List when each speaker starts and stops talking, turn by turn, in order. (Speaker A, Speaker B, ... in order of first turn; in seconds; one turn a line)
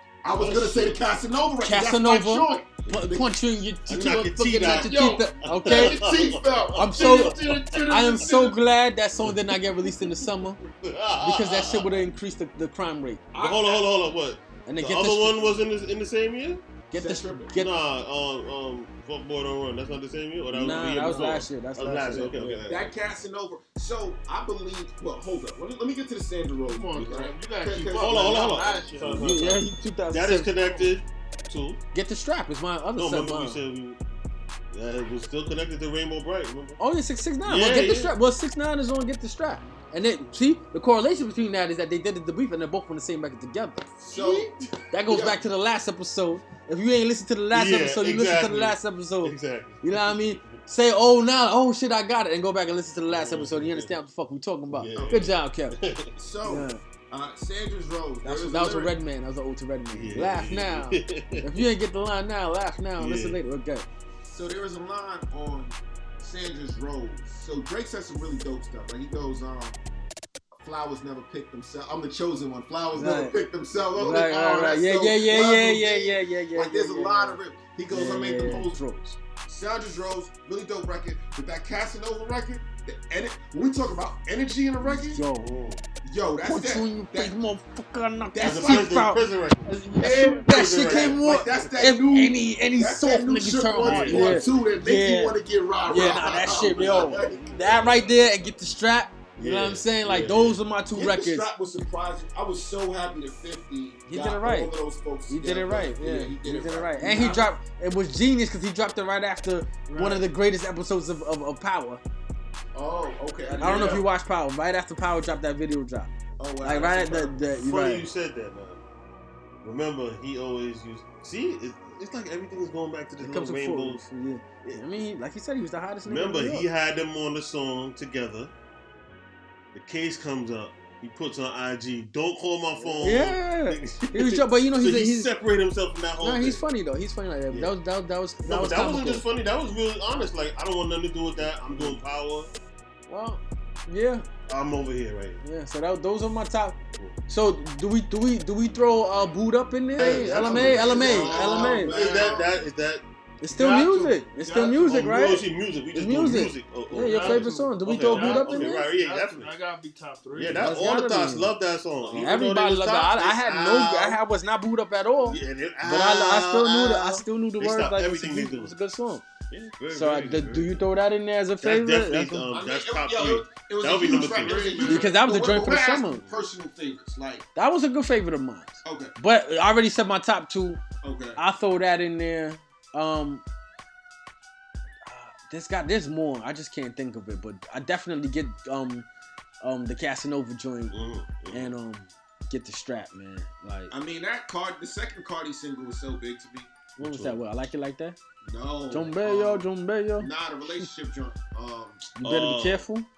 Speaker A: 0.2-3.3
Speaker B: 0.4-0.9
Speaker C: 1.6-6.1
Speaker B: 3.9-8.1
Speaker D: 4.7-8.6
Speaker A: 5.7-6.8
Speaker C: 6.8-10.6
Speaker B: 9.2-12.1
Speaker C: 11.2-13.3
Speaker A: 13.3-13.9
Speaker B: 13.4-16.6
Speaker C: 14.7-15.6
Speaker C: 16.9-17.8
Speaker A: 16.9-17.6
Speaker B: 17.5-22.9
Speaker C: 20.5-22.6
Speaker A: 22.1-28.3
Speaker D: 26.7-29.3
Speaker B: 27.9-31.8
Speaker C: 29.1-30.9
Speaker C: 31.9-33.6
Speaker B: 33.0-34.0
Speaker B: 34.7-36.8
Speaker C: 36.8-43.9
Speaker B: 37.5-38.1
Speaker A: 44.0-45.4
Speaker D: 44.1-44.5
Speaker C: 44.9-55.8
Speaker B: 47.5-50.6
Speaker B: 53.1-54.0
Speaker B: 54.7-56.1
Speaker A: 54.9-55.3
Speaker A: 56.2-58.9
Speaker C: 56.5-56.8
Speaker C: 58.2-63.9
Speaker B: 59.9-61.7
Speaker B: 63.0-63.4
Speaker A: 64.2-69.8
Speaker A: 70.6-78.8
Speaker C: 72.9-73.4
Speaker C: 74.0-77.4
Speaker C: 77.9-79.2
Speaker A: 79.5-85.2
Speaker C: 84.8-85.5
Speaker B: 85.4-85.8
Speaker A: 86.0-87.3
Speaker C: 86.4-89.2
Speaker A: 88.3-89.0
Speaker B: 88.4-91.4
Speaker D: 89.7-90.5
Speaker A: 90.0-97.9
Speaker C: 90.0-101.5
Speaker B: 93.8-94.5
Speaker B: 96.4-98.3
Speaker B: 99.4-100.6
Speaker A: 100.9-107.5
Speaker C: 104.1-104.7
Speaker C: 105.3-112.0
Speaker D: 109.9-110.3
Speaker A: 112.7-114.1
Speaker C: 113.5-116.1
Speaker D: 113.6-114.0
Speaker A: 116.4-117.4
Speaker C: 116.6-118.1
Speaker B: 117.6-118.8
Speaker B: 119.6-124.0
Speaker C: 123.2-126.7
Speaker B: 126.0-128.5
Speaker B: 129.7-136.6
Speaker C: 133.0-135.3
Speaker C: 136.2-139.2
Speaker B: 137.5-137.8
Speaker B: 138.4-142.5
Speaker C: 143.1-144.3
Speaker B: 144.5-145.4
Speaker C: 145.4-152.0
Speaker A: 150.0-152.6
Speaker D: 150.0-152.4
Speaker B: 150.4-153.0
Speaker C: 153.4-158.9
Speaker D: 153.5-155.0
Speaker B: 154.8-159.6
Speaker D: 157.0-160.8
Speaker B: 160.3-164.2
Speaker C: 160.6-161.5
Speaker A: 162.0-162.4
Speaker C: 162.1-169.2
Speaker B: 165.2-168.7
Speaker B: 169.5-170.8
Speaker C: 169.9-172.5
Speaker B: 171.6-174.8
Speaker A: 172.5-177.5
Speaker D: 174.1-175.1
Speaker C: 174.8-176.2
Speaker C: 177.6-180.8
Speaker A: 178.8-179.1
Speaker A: 181.0-181.4
Speaker C: 181.4-183.4
Speaker C: 185.1-189.1
Speaker C: 189.6-190.9
Speaker B: 190.9-191.7
Speaker C: 191.5-193.9
Speaker A: 193.9-196.7
Speaker C: 197.0-198.2
Speaker B: 197.0-197.4
Speaker A: 198.4-199.7
Speaker C: 198.9-200.9
Speaker A: 200.2-202.1
Speaker C: 202.2-203.1
Speaker B: 202.2-202.8